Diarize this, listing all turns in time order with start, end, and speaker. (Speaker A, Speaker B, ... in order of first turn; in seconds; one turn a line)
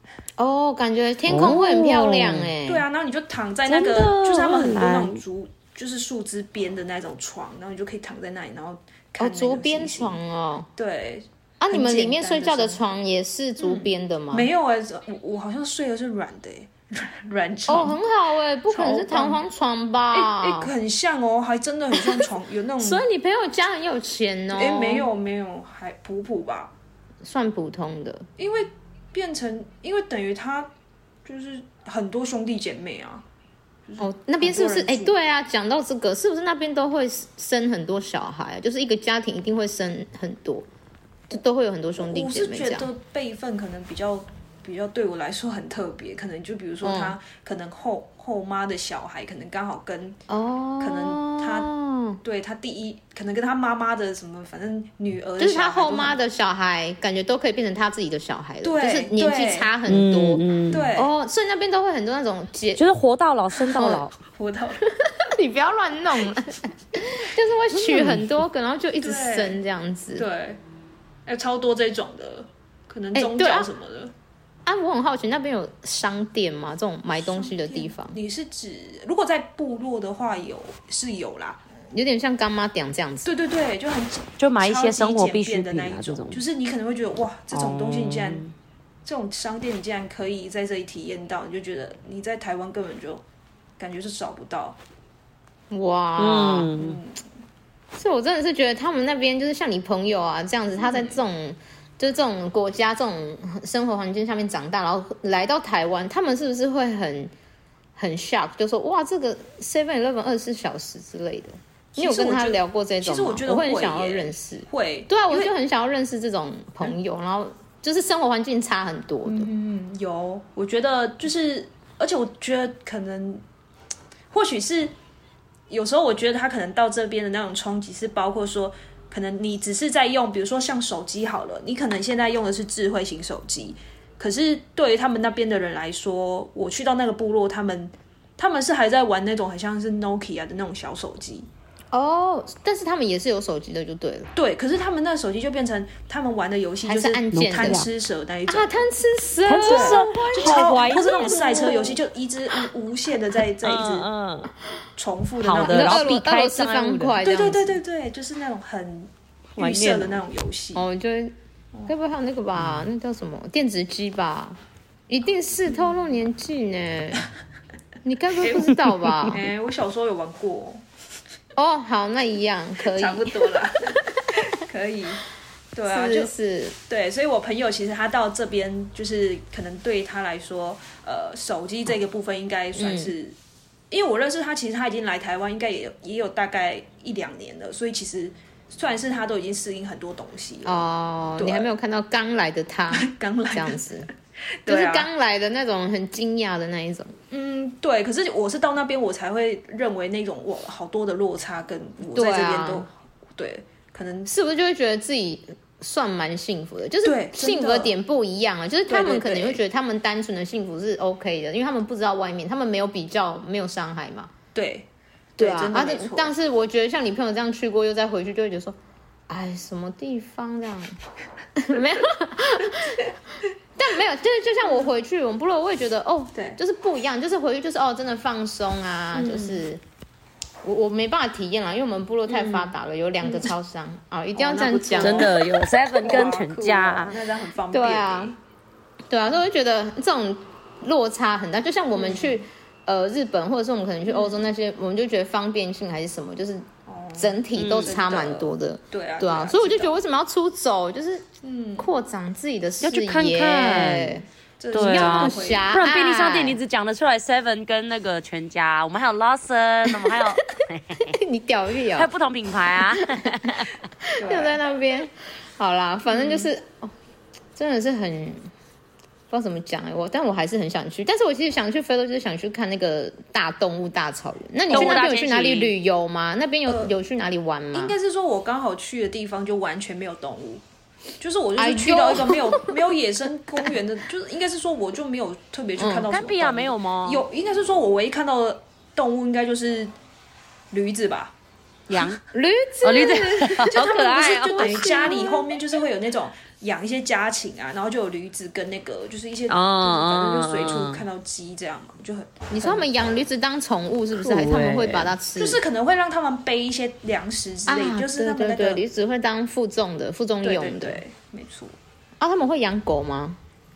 Speaker A: 0.4-2.9
Speaker B: 1.3-2.5
Speaker C: 2.6-10.2
Speaker B: 3.7-5.2
Speaker A: 9.2-10.7
Speaker C: 10.8-12.8
Speaker A: 11.6-14.5
Speaker C: 13.6-18.0
Speaker A: 17.7-20.7
Speaker C: 18.7-19.4
Speaker C: 20.1-23.1
Speaker A: 22.0-22.2
Speaker A: 22.8-25.1
Speaker C: 24.5-26.7
Speaker A: 27.2-28.3
Speaker C: 28.4-30.7
Speaker C: 31.2-33.2
Speaker C: 33.9-35.2
Speaker A: 34.0-40.7
Speaker A: 41.3-42.9
Speaker C: 42.0-50.2
Speaker A: 46.8-47.2
Speaker A: 50.3-52.2
Speaker C: 50.8-51.7
Speaker C: 52.2-56.2
Speaker A: 55.4-60.4
Speaker C: 58.6-59.7
Speaker B: 59.9-60.9
Speaker C: 60.7-61.1
Speaker A: 61.0-62.8
Speaker B: 62.8-64.2
Speaker A: 63.7-64.0
Speaker C: 64.3-64.8
Speaker A: 64.9-70.2
Speaker B: 67.8-68.3
Speaker C: 69.0-69.6
Speaker C: 70.2-70.6
Speaker C: 71.2-74.1
Speaker A: 73.2-73.7
Speaker A: 74.7-78.2
Speaker C: 77.2-81.6
Speaker A: 81.9-83.3
Speaker C: 83.2-88.5
Speaker B: 84.4-86.4
Speaker B: 87.5-88.5
Speaker C: 89.0-93.2
Speaker C: 93.8-94.8
Speaker A: 95.7-96.7
Speaker B: 96.2-97.0
Speaker C: 96.7-97.2
Speaker A: 97.9-107.3
Speaker C: 100.8-101.2
Speaker A: 108.0-119.5
Speaker C: 112.0-115.5
Speaker C: 119.2-123.4
Speaker C: 124.3-124.9
Speaker C: 125.7-141.5
Speaker A: 141.9-144.3
Speaker C: 144.4-148.8
Speaker A: 146.8-147.8
Speaker B: 147.3-147.9
Speaker A: 148.5-152.0
Speaker B: 149.5-151.9
Speaker C: 149.7-154.1
Speaker B: 153.6-154.5
Speaker C: 155.0-156.1
Speaker B: 155.4-157.2
Speaker A: 155.6-157.8
Speaker C: 157.2-160.8
Speaker B: 159.6-160.2
Speaker A: 160.8-161.3
Speaker A: 161.9-164.6
Speaker B: 162.6-162.8
Speaker A: 165.1-167.3
Speaker A: 168.0-169.4
Speaker C: 168.4-168.8
Speaker C: 169.3-170.8
Speaker A: 171.6-174.4
Speaker C: 172.8-175.2
Speaker C: 175.8-176.3
Speaker A: 175.9-176.8
Speaker C: 176.9-183.4
Speaker A: 182.8-183.1
Speaker C: 183.9-190.8
Speaker A: 190.7-194.1
Speaker C: 191.4-191.7
Speaker C: 192.9-193.8
Speaker C: 194.6-195.1
Speaker A: 194.7-197.1
Speaker C: 197.3-204.3
Speaker A: 202.1-202.9
Speaker A: 204.3-214.3
Speaker C: 207.0-207.9
Speaker C: 208.9-209.6
Speaker C: 214.5-216.3
Speaker A: 215.4-218.8
Speaker A: 219.3-221.0
Speaker A: 221.6-223.1
Speaker A: 223.8-229.8
Speaker C: 229.1-229.6
Speaker A: 230.6-235.3
Speaker C: 232.3-232.7
Speaker C: 233.2-233.5
Speaker C: 234.3-235.5
Speaker B: 235.0-237.2
Speaker C: 236.0-238.4
Speaker A: 237.7-238.3
Speaker A: 239.1-251.3
Speaker C: 241.9-242.4
Speaker C: 244.1-244.4
Speaker C: 246.9-250.0
Speaker B: 247.6-247.9
Speaker C: 251.4-251.9
Speaker A: 251.8-256.6
Speaker B: 252.8-254.2
Speaker C: 254.6-255.8
Speaker B: 254.7-261.2
Speaker A: 261.0-262.1
Speaker B: 261.9-263.7
Speaker A: 262.9-266.9
Speaker C: 264.2-264.6
Speaker C: 266.1-266.5
Speaker A: 267.6-268.5
Speaker A: 269.3-277.9
Speaker C: 274.7-275.1
Speaker B: 274.7-275.8
Speaker C: 276.7-276.9
Speaker C: 277.7-280.6
Speaker C: 281.2-289.9
Speaker A: 281.6-282.8
Speaker A: 285.8-286.1
Speaker B: 286.1-287.2
Speaker C: 290.7-291.3
Speaker B: 291.9-292.2
Speaker A: 292.3-295.5
Speaker B: 292.8-295.1
Speaker C: 293.6-302.9
Speaker B: 299.5-301.0
Speaker A: 302.5-305.6
Speaker B: 304.1-305.1
Speaker C: 305.4-308.8
Speaker A: 307.7-311.0
Speaker C: 310.4-311.8
Speaker A: 312.2-313.4